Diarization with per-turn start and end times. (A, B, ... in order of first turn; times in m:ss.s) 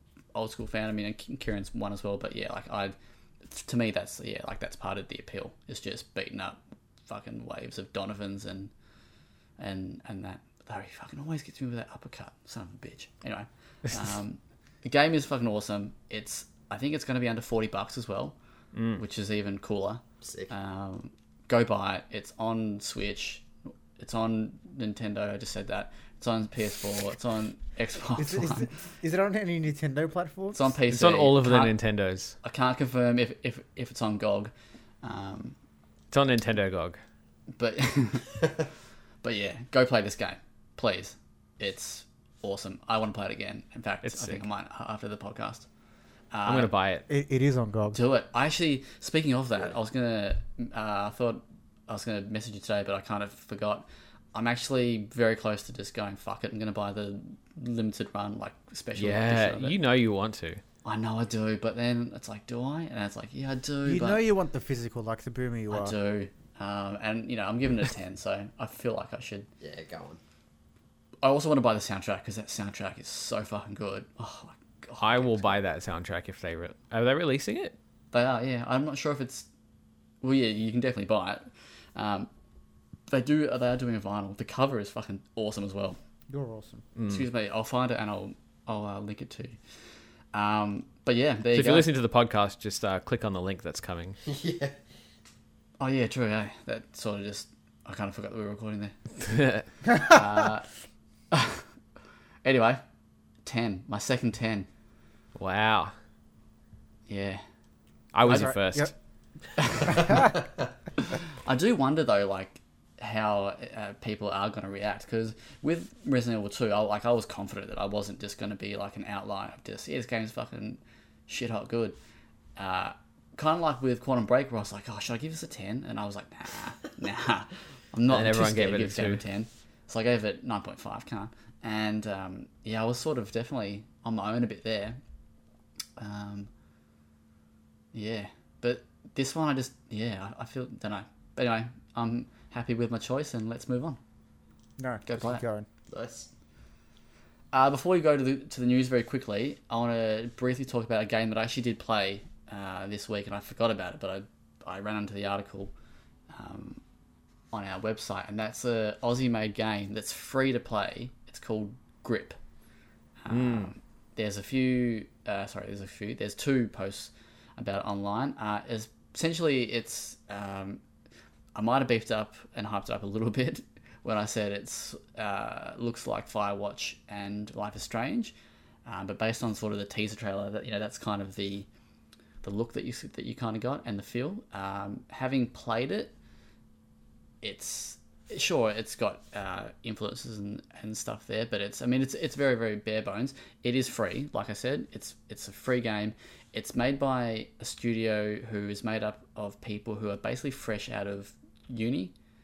0:00.3-0:08.7 A
0:09.6-0:18.4 A
0:18.7-0:19.0 B
0:19.0-0:28.7 A
0:20.2-0:20.5 C
0:28.2-0:30.7 D
0:30.5-0:31.8 A
0:30.9-0:32.4 B
0:32.4-0:35.6 A
0:36.1-0:37.0 B
0:37.5-0:38.4 A
0:39.2-0:45.7 A
0:44.0-0:44.4 B
0:46.3-0:46.7 A
0:46.4-0:47.0 B
0:47.1-0:48.0 D
0:47.9-0:59.8 A
0:59.0-1:00.6 B
1:00.8-1:04.2 A
1:03.8-1:06.0 D
1:05.7-1:09.5 A
1:09.6-1:10.2 C
1:11.2-1:15.4 A
1:15.0-1:17.8 B
1:18.1-1:19.5 A
1:20.2-1:22.3 A
1:23.1-1:26.0 A
1:26.3-1:26.8 D
1:27.0-1:27.3 B
1:27.1-1:31.9 A
1:31.5-1:34.2 B
1:34.3-1:34.8 C
1:35.8-1:39.0 A
1:39.2-1:39.7 B
1:40.1-1:40.7 A
1:41.3-1:41.7 A
1:42.4-1:42.8 A
1:43.4-1:44.7 A
1:45.4-1:45.9 B
1:47.1-1:47.4 A
1:48.1-1:48.9 B
1:48.2-1:48.9 D
1:49.6-1:50.1 A
1:49.8-1:50.3 D
1:51.3-2:02.0 A
2:02.6-2:15.0 A
2:08.1-2:09.2 B
2:16.0-2:16.5 A
2:17.9-2:24.0 A
2:24.8-2:25.7 D
2:25.1-2:25.4 A
2:25.9-2:26.3 C
2:27.5-2:35.7 A
2:36.3-2:36.8 A
2:37.5-2:42.4 A
2:43.2-2:50.8 A
2:43.3-2:43.7 B
2:51.6-2:58.3 A
2:58.9-3:01.7 A
3:02.4-3:06.2 A
3:07.4-3:22.1 A